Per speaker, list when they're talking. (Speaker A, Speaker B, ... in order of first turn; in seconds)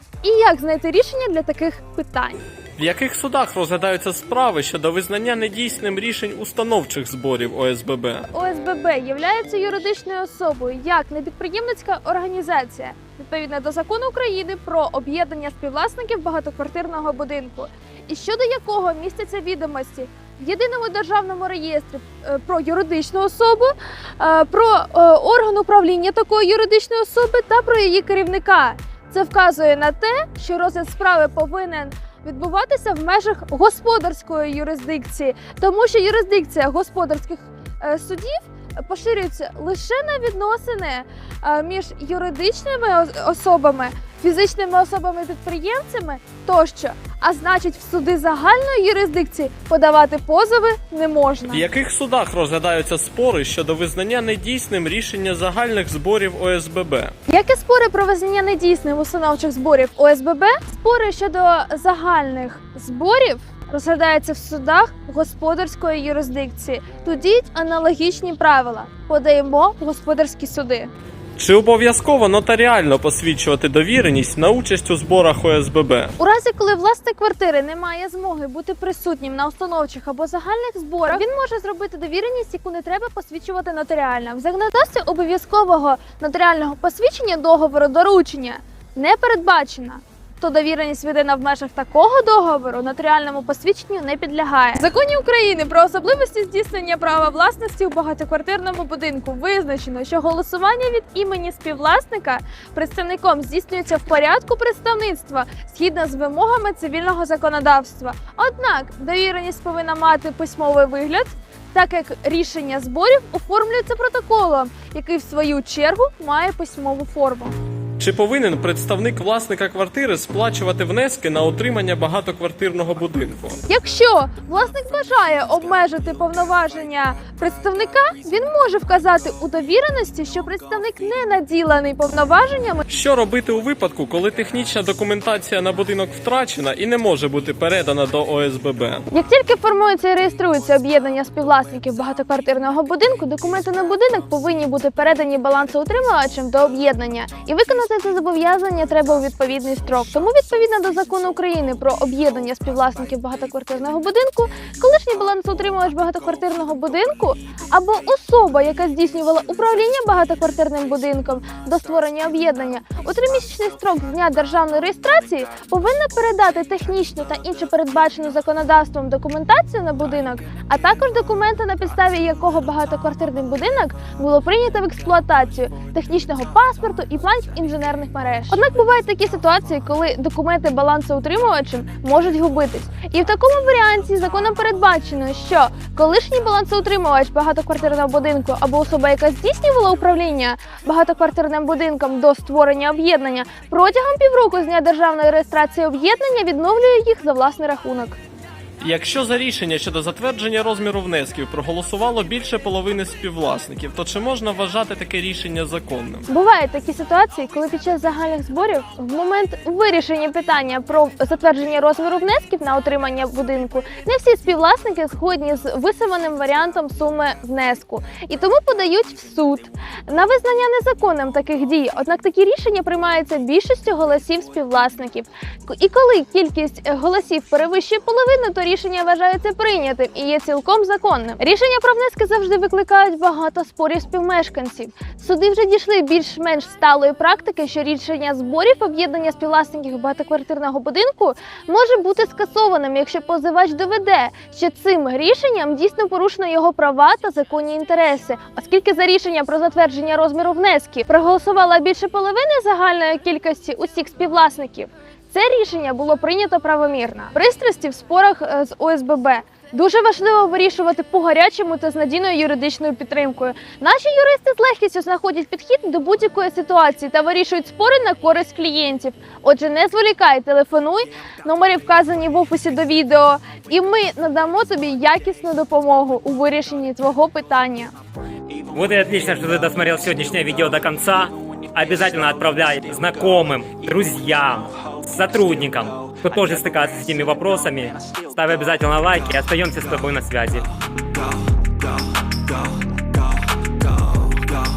Speaker A: 0.2-2.4, 8.3-51.7, 57.3-70.9, 76.2-117.6, 123.7-132.8, 139.1-198.2, 206.3-277.9
Speaker B: 2.8-8.2, 51.5-57.1, 71.4-76.1, 118.0-123.6, 132.9-139.0, 198.8-206.2
Speaker C: 278.7-290.7